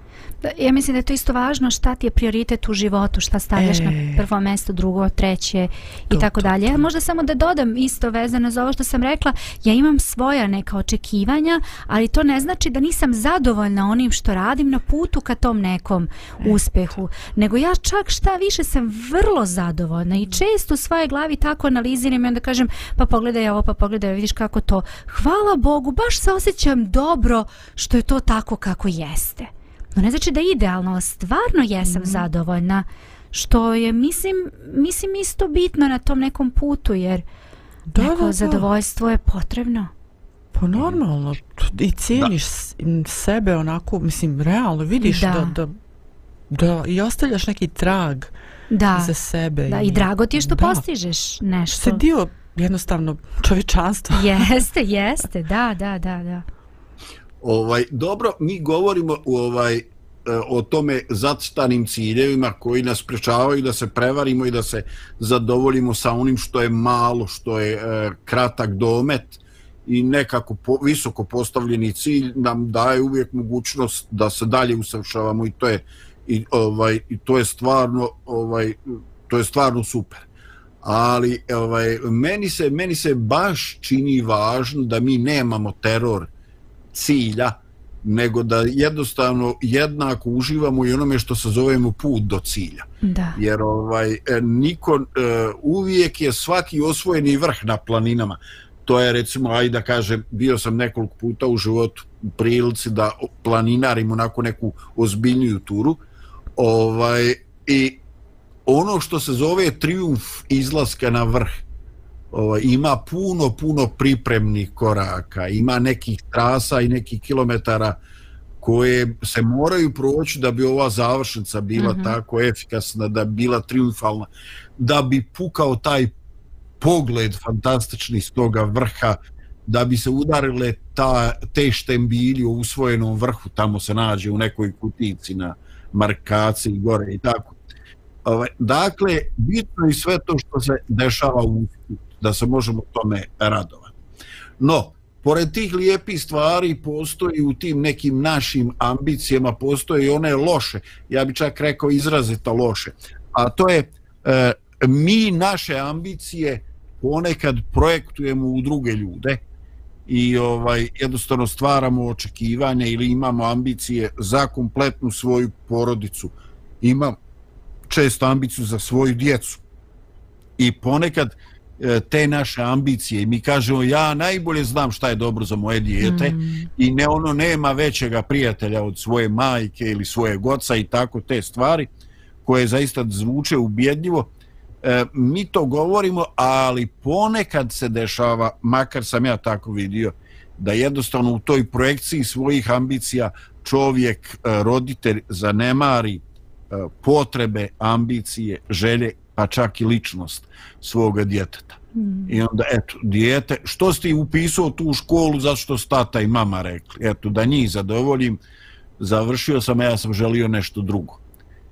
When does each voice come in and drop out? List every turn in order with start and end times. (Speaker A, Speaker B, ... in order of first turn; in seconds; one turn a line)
Speaker A: 0.4-37.2
Speaker B: 3.5-4.2
Speaker B: 6.1-6.5
Speaker B: 31.9-32.2
Speaker B: 37.9-38.7
Speaker A: 38.0-39.9
Speaker B: 40.5-45.7
Speaker A: 45.0-45.5
Speaker B: 46.5-48.3
Speaker A: 48.7-49.1
Speaker B: 48.9-50.8
Speaker A: 49.7-52.0
Speaker B: 51.8-54.5
Speaker A: 54.1-56.4
Speaker C: 57.4-80.2
Speaker C: 80.8-86.3
Speaker C: 86.9-106.0
Speaker A: 93.0-93.4
Speaker C: 106.5-108.0
Speaker C: 108.7-111.6
Speaker C: 112.3-118.0
Speaker C: 118.6-126.1
Speaker A: 121.8-122.2
Speaker C: 126.8-137.6
Speaker C: 138.2-143.9
Speaker C: 144.6-159.4
Speaker C: 160.1-167.2
Speaker C: 167.9-169.6
Speaker C: 170.6-181.9
Speaker A: 176.0-176.7
Speaker C: 182.4-184.3
Speaker C: 184.8-208.4
Speaker A: 201.9-202.4
Speaker C: 209.0-211.2